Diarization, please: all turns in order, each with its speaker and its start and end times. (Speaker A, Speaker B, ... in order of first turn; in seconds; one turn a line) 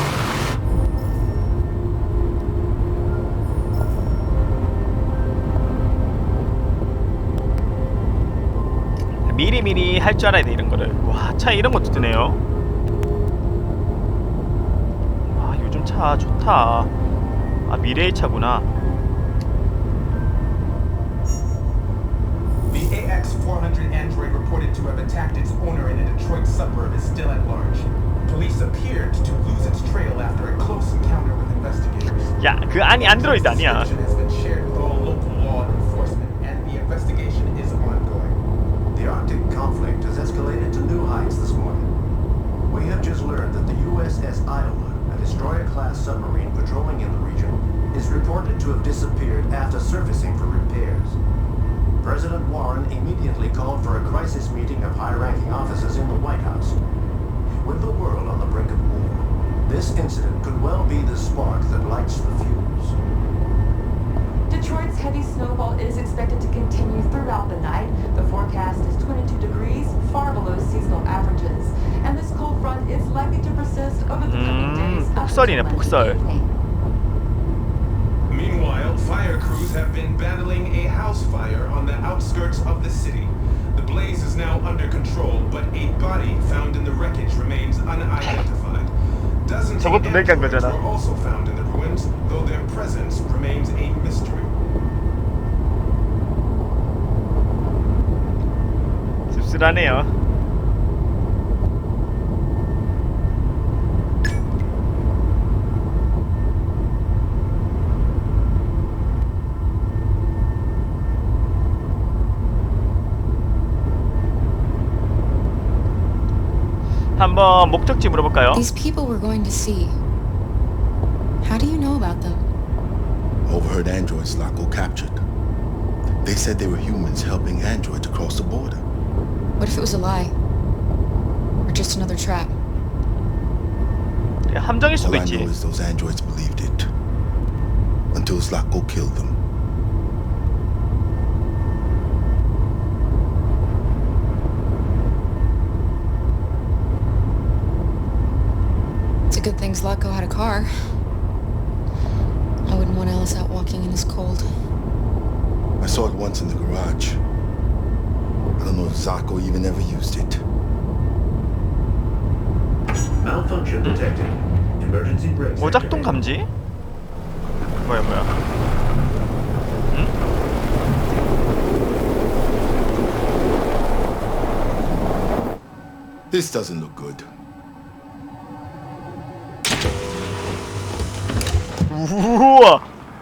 Speaker A: 9.2-12.4
Speaker A: 15.3-16.9
Speaker A: 17.7-18.7
Speaker B: 22.7-38.4
Speaker A: 32.4-33.9
Speaker C: 38.9-41.9
Speaker C: 42.7-51.2
Speaker C: 52.0-56.8
Speaker C: 57.6-63.0
Speaker D: 64.5-76.5
Speaker A: 74.2-76.2
Speaker B: 78.3-88.9
Speaker B: 89.4-94.5
Speaker A: 89.8-90.8
Speaker A: 99.3-100.1
Speaker A: 117.2-118.6
Speaker E: 118.5-120.0
Speaker E: 121.4-122.4
Speaker F: 123.5-125.2
Speaker F: 126.2-128.8
Speaker E: 129.6-130.3
Speaker E: 131.7-132.5
Speaker A: 134.5-135.5
Speaker F: 135.0-136.9
Speaker F: 138.1-139.4
Speaker E: 149.3-150.7
Speaker E: 152.7-154.5
Speaker F: 155.8-157.2
Speaker F: 158.6-160.4
Speaker C: 163.2-166.1
Speaker A: 165.6-166.5
Speaker A: 167.8-168.3
Speaker F: 176.3-177.3
Speaker A: 181.9-182.9